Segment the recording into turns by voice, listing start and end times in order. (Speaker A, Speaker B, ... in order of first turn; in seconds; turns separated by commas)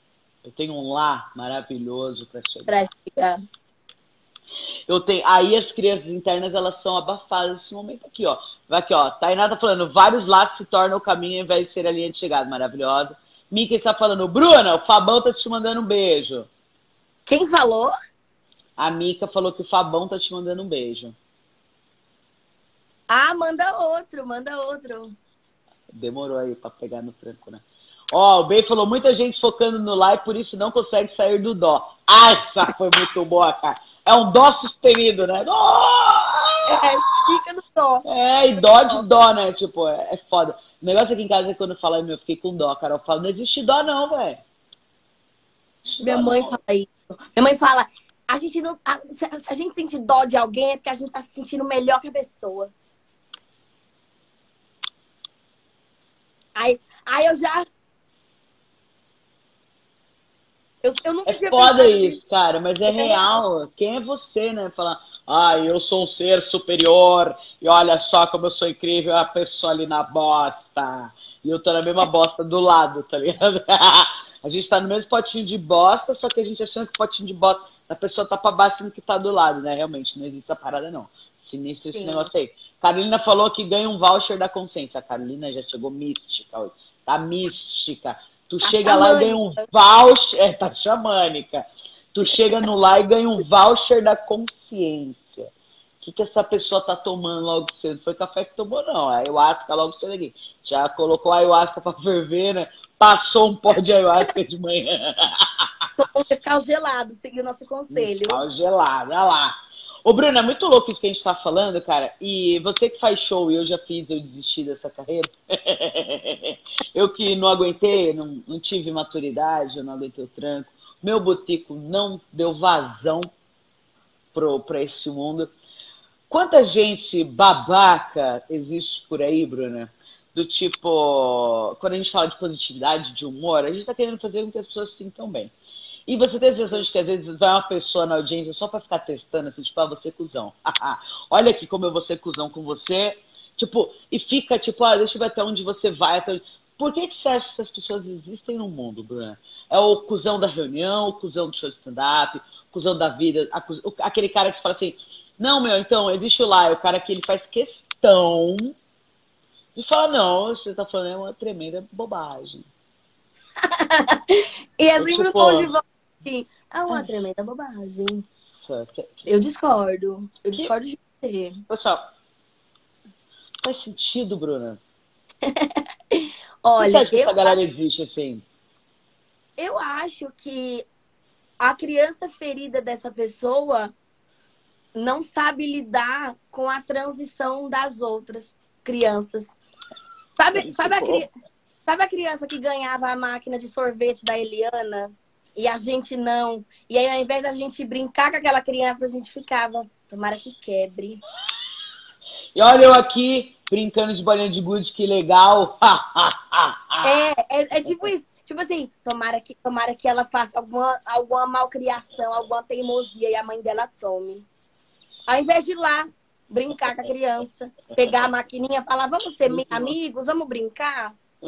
Speaker A: 0.4-2.8, Speaker B: 2.7-3.4, Speaker A: 4.9-16.5, Speaker B: 17.3-17.9, Speaker A: 18.8-21.2, Speaker B: 23.1-25.1, Speaker A: 25.9-37.0, Speaker B: 36.7-38.0, Speaker A: 38.1-44.4, Speaker B: 38.6-39.1, Speaker A: 45.9-46.6, Speaker B: 46.0-52.7, Speaker B: 56.5-57.7, Speaker B: 60.8-62.2, Speaker A: 61.2-95.5, Speaker B: 62.9-63.4, Speaker B: 81.9-82.3, Speaker B: 88.6-89.6, Speaker A: 96.0-105.7, Speaker B: 106.0-108.4, Speaker A: 107.9-123.3, Speaker A: 124.3-125.5, Speaker A: 126.3-135.5, Speaker A: 136.1-158.7, Speaker A: 159.8-162.7, Speaker B: 163.6-168.3, Speaker A: 165.0-165.7, Speaker A: 168.6-169.3, Speaker B: 169.3-171.6, Speaker A: 171.7-172.0, Speaker A: 173.6-174.8, Speaker B: 175.4-177.6, Speaker A: 176.8-178.4, Speaker B: 179.6-180.9, Speaker B: 181.6-183.9, Speaker B: 184.9-189.6, Speaker B: 190.4-191.3, Speaker A: 190.5-191.3, Speaker B: 191.9-201.2, Speaker A: 202.6-207.3, Speaker B: 207.0-214.5, Speaker B: 215.3-221.2, Speaker A: 219.4-219.9